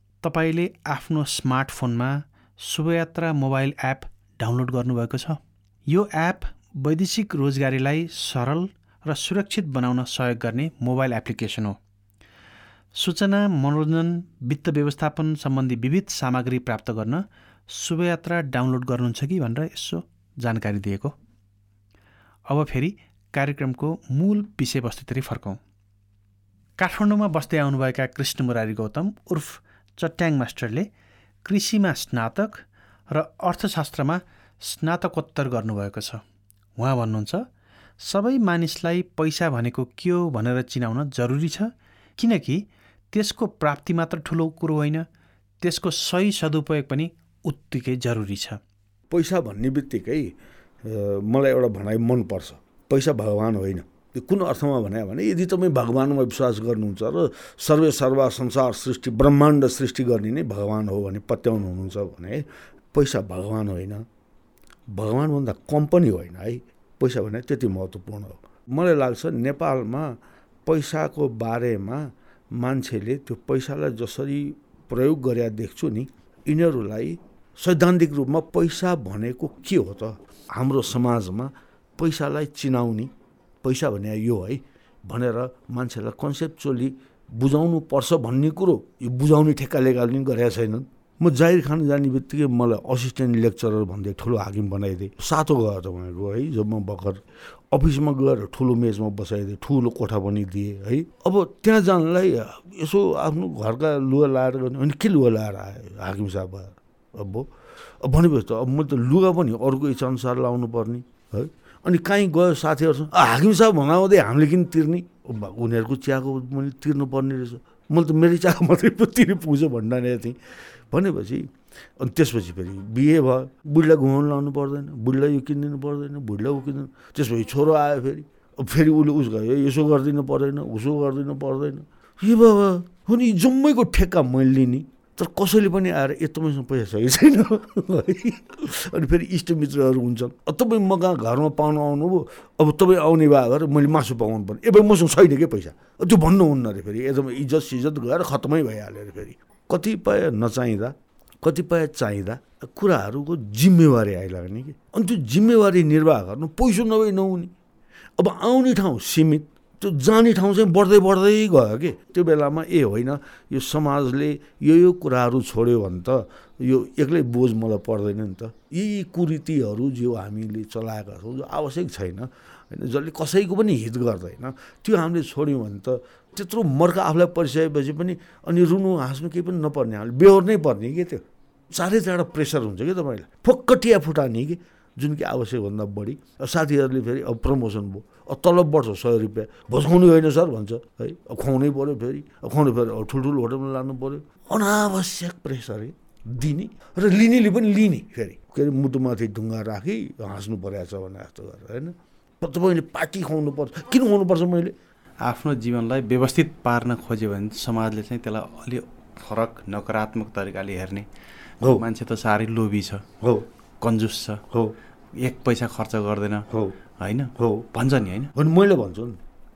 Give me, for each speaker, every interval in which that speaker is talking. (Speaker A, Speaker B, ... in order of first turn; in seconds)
Speaker A: 0.2-11.8, 13.0-21.1, 22.5-25.6, 26.8-30.9, 31.4-36.2, 36.8-37.5, 38.0-45.1, 45.6-48.6, 205.2-211.1, 211.7-213.0, 213.8-214.4, 215.2-216.4, 217.0-218.3
Speaker B: 49.1-64.0, 64.9-83.1, 83.6-97.2, 97.7-107.5, 108.0-120.4, 120.9-157.5, 158.2-204.7, 211.6-211.9, 213.2-213.5, 216.5-216.8, 217.4-217.7, 218.3-219.2